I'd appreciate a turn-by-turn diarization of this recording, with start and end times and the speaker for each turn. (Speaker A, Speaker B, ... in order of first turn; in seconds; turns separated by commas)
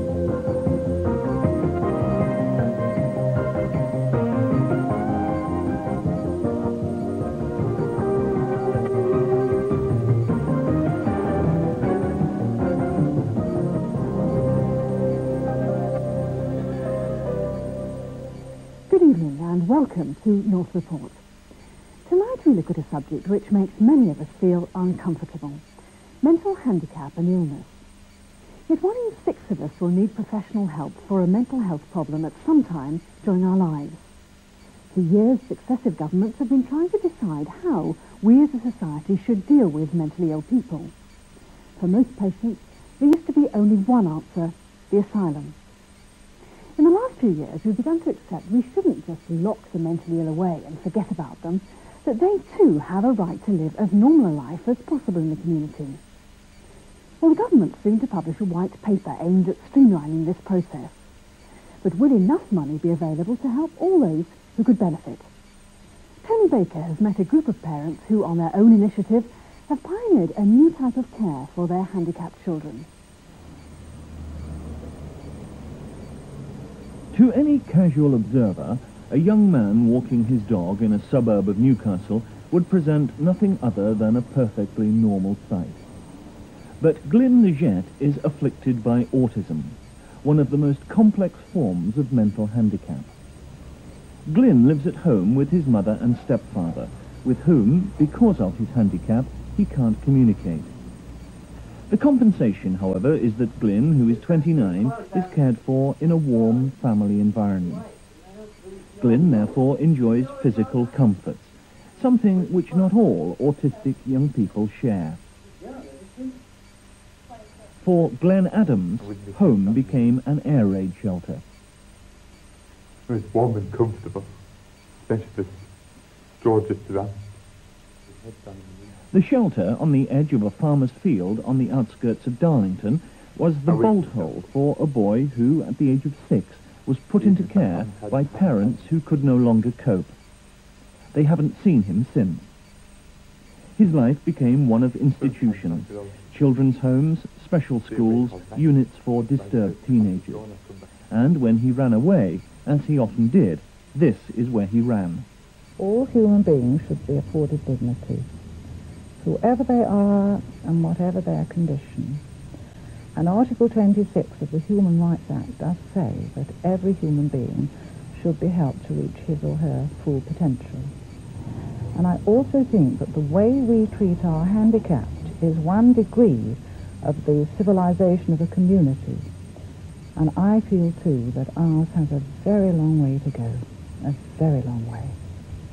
Speaker A: 18.9-21.2, Speaker A: 22.0-25.6, Speaker A: 26.2-27.8, Speaker A: 28.7-34.1, Speaker A: 34.9-40.9, Speaker A: 41.8-45.5, Speaker A: 46.8-56.0, Speaker A: 57.2-61.0, Speaker A: 61.8-65.3, Speaker A: 66.2-72.9, Speaker B: 77.1-85.8, Speaker B: 86.8-93.1, Speaker B: 94.2-100.7, Speaker B: 101.9-107.9, Speaker B: 109.0-115.2, Speaker B: 117.8-121.4, Speaker C: 119.0-120.2, Speaker C: 123.1-124.3, Speaker C: 125.0-125.7, Speaker C: 126.4-127.2, Speaker C: 128.1-128.8, Speaker B: 129.1-140.2, Speaker C: 133.7-134.4, Speaker C: 137.2-138.9, Speaker B: 141.1-142.4, Speaker B: 143.8-150.5, Speaker C: 145.2-146.2, Speaker C: 147.9-148.7, Speaker C: 149.3-150.8, Speaker B: 151.1-155.2, Speaker D: 155.8-158.3, Speaker D: 159.2-162.2, Speaker D: 163.1-170.9, Speaker D: 171.9-179.3, Speaker D: 180.1-185.2